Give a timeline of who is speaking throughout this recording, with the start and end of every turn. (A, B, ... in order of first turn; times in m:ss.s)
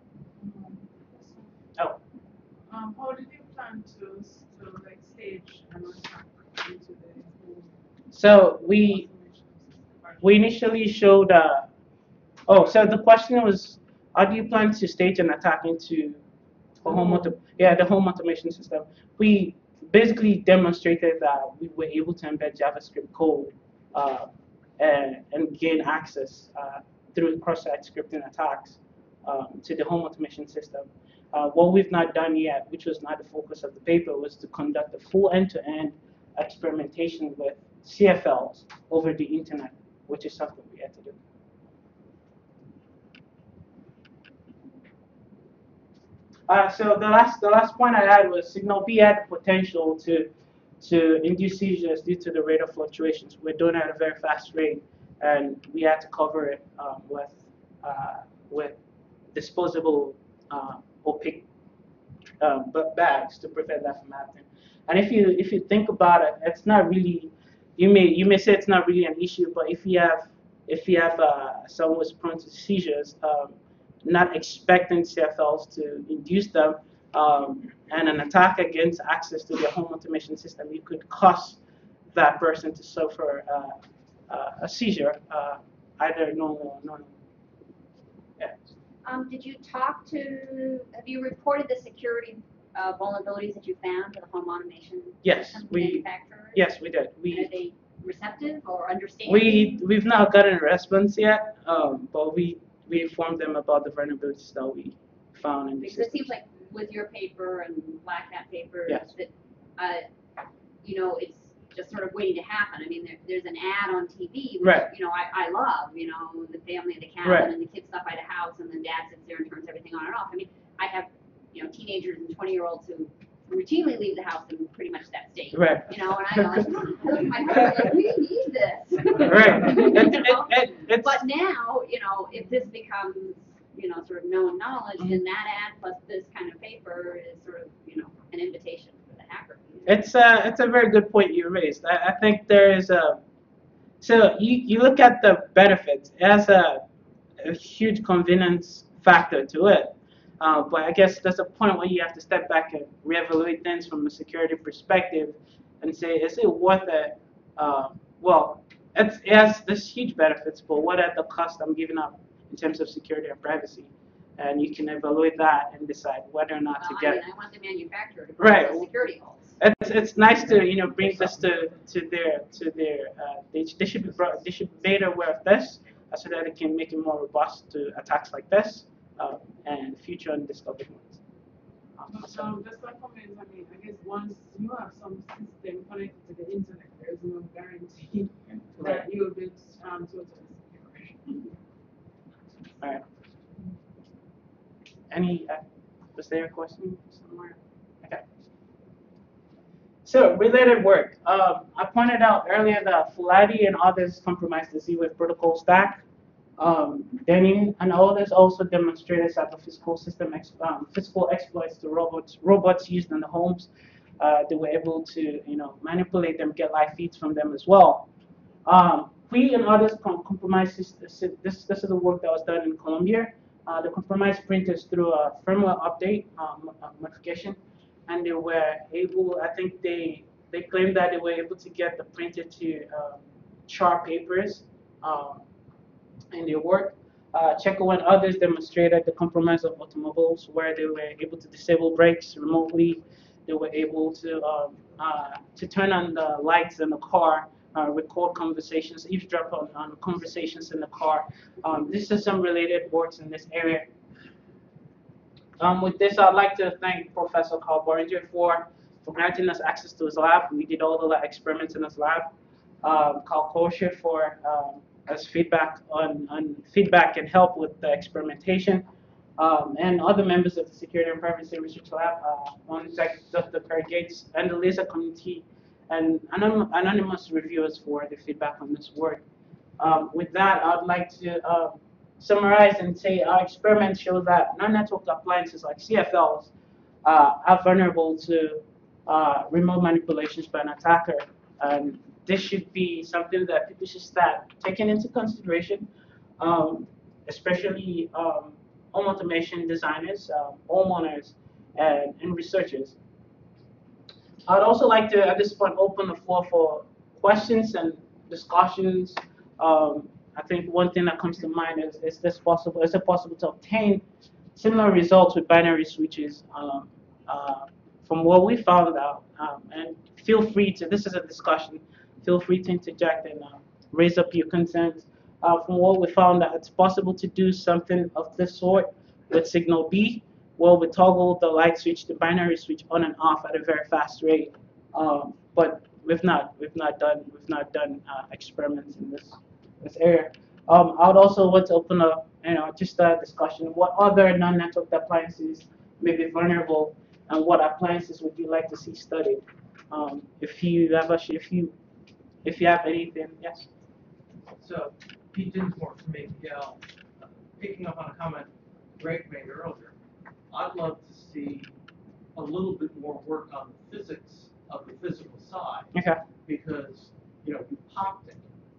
0:00.4-0:01.5 A
0:02.7-0:07.7 A
0:08.1-0:09.1 B
0:08.3-0:10.4 A
0:10.2-0:11.7 B
0:12.5-0:16.2 B
0:16.8-0:41.2 B
0:16.8-0:17.4 A
0:46.5-0:58.8 B
0:59.3-1:01.4 B
1:02.4-1:21.6 B
1:22.1-1:23.8 B
1:24.3-1:27.2 B
1:29.0-1:36.7 C
1:35.2-1:37.5 B
1:37.3-1:39.8 C
1:39.3-1:46.3 B
1:45.8-1:50.1 C
1:50.8-2:20.1 C
1:54.6-1:54.9 B
1:57.2-1:57.5 B
2:05.5-2:06.7 B
2:07.5-2:07.9 B
2:09.3-2:11.2 B
2:19.9-2:23.2 B
2:24.0-2:26.8 B
2:27.4-2:47.2 B
2:46.8-2:49.6 C
2:48.4-2:48.9 B
2:49.6-3:01.2 B
3:02.0-3:02.5 B
3:02.1-3:11.4 A
3:08.8-3:09.1 B
3:15.1-3:15.6 B
3:16.2-3:18.2 B
3:20.0-3:26.0 B
3:26.6-3:38.1 B
3:38.7-3:55.4 B
3:56.3-4:13.9 B
4:15.6-4:22.3 B
4:22.8-4:28.8 B
4:29.4-4:39.2 B
4:39.8-4:46.5 B
4:47.0-4:55.9 B
4:56.4-5:03.0 B
5:04.5-5:14.0 B
5:14.6-5:51.7 B
5:52.4-5:53.7 B
5:54.6-6:00.0 D
6:00.5-6:01.8 D
6:02.4-6:05.9 D
6:05.9-6:06.2 B
6:06.4-6:08.5 D